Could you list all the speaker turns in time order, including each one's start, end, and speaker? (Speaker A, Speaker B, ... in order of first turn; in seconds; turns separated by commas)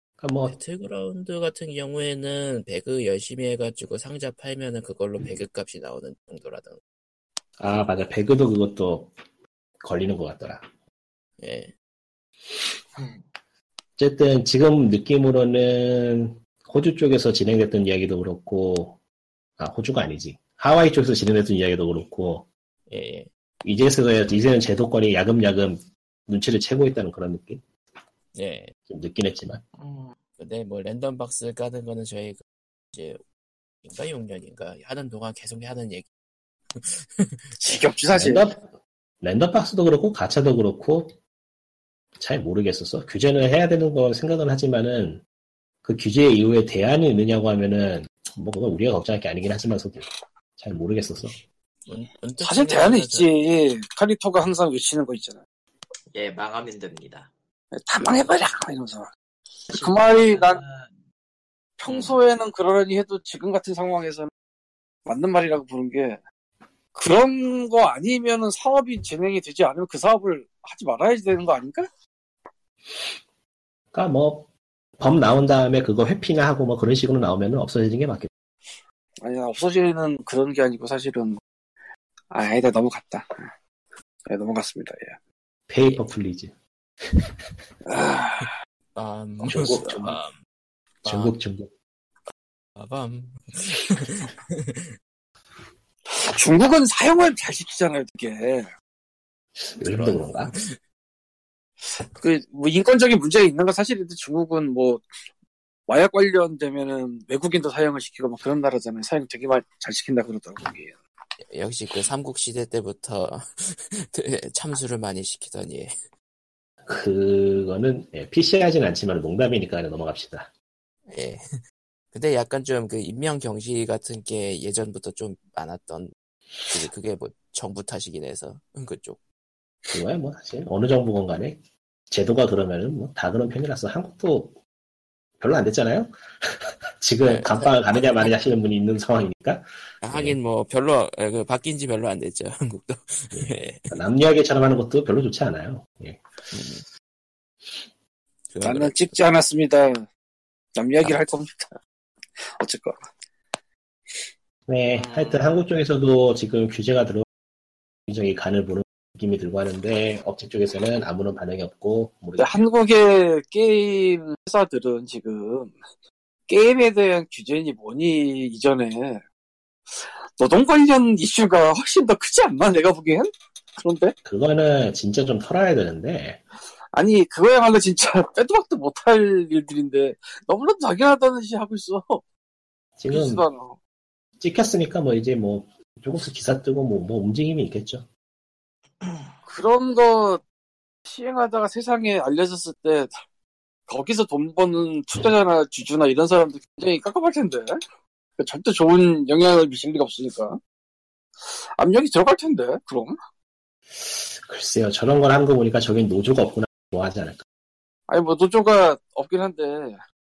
Speaker A: 0.2-0.6, Speaker B: 0.5-6.8, Speaker A: 7.6-9.1, Speaker A: 9.8-10.6, Speaker B: 11.4-11.7, Speaker C: 13.0-13.2, Speaker A: 14.0-19.0, Speaker A: 19.6-22.5, Speaker B: 22.9-23.3, Speaker A: 23.6-27.6, Speaker B: 28.3-28.7, Speaker A: 28.9-29.6, Speaker C: 29.8-30.1, Speaker B: 30.4-32.4, Speaker B: 32.9-33.2, Speaker B: 33.8-36.0, Speaker B: 36.8-37.8, Speaker D: 37.6-38.5, Speaker A: 38.1-38.7, Speaker A: 39.2-41.1, Speaker A: 42.2-45.2, Speaker A: 45.8-50.0, Speaker A: 50.6-51.3, Speaker B: 51.9-53.3, Speaker D: 52.4-55.4, Speaker C: 56.1-57.3, Speaker D: 57.7-59.1, Speaker D: 59.7-60.6, Speaker C: 59.7-60.9, Speaker D: 61.8-64.3, Speaker C: 61.9-62.2, Speaker D: 65.0-66.2, Speaker D: 66.9-71.9, Speaker A: 73.9-78.3, Speaker D: 79.2-81.4, Speaker D: 82.3-83.5, Speaker D: 84.3-85.2, Speaker A: 85.7-86.5, Speaker D: 87.8-88.5, Speaker B: 88.9-90.3, Speaker A: 89.4-90.2, Speaker D: 89.7-89.9, Speaker B: 91.0-91.3, Speaker A: 91.0-91.7, Speaker B: 92.8-94.9, Speaker D: 96.1-98.7, Speaker A: 99.5-100.5, Speaker B: 99.8-100.8, Speaker D: 102.0-105.0, Speaker D: 105.9-111.0, Speaker B: 111.5-115.9, Speaker A: 116.8-120.5, Speaker B: 121.1-121.6, Speaker B: 122.1-126.1, Speaker B: 126.7-129.2, Speaker A: 129.9-131.6, Speaker A: 132.1-134.6, Speaker A: 135.4-140.3, Speaker B: 137.2-138.3, Speaker B: 140.0-143.9, Speaker A: 143.3-146.2, Speaker B: 146.5-146.8, Speaker B: 148.5-149.2, Speaker D: 148.6-150.1, Speaker D: 150.8-151.8, Speaker D: 152.4-153.0, Speaker A: 154.7-157.2, Speaker C: 154.9-155.6, Speaker A: 158.1-162.6, Speaker D: 162.4-165.8, Speaker D: 166.5-169.2, Speaker D: 169.9-174.2, Speaker A: 174.2-176.4, Speaker D: 176.9-182.2, Speaker A: 183.0-183.4, Speaker D: 183.1-183.8, Speaker A: 184.4-188.1, Speaker C: 189.0-189.3, Speaker D: 189.5-190.4, Speaker D: 191.1-193.2, Speaker D: 193.9-197.8, Speaker D: 198.4-200.6, Speaker D: 201.5-203.2, Speaker A: 204.0-207.4, Speaker D: 208.1-210.0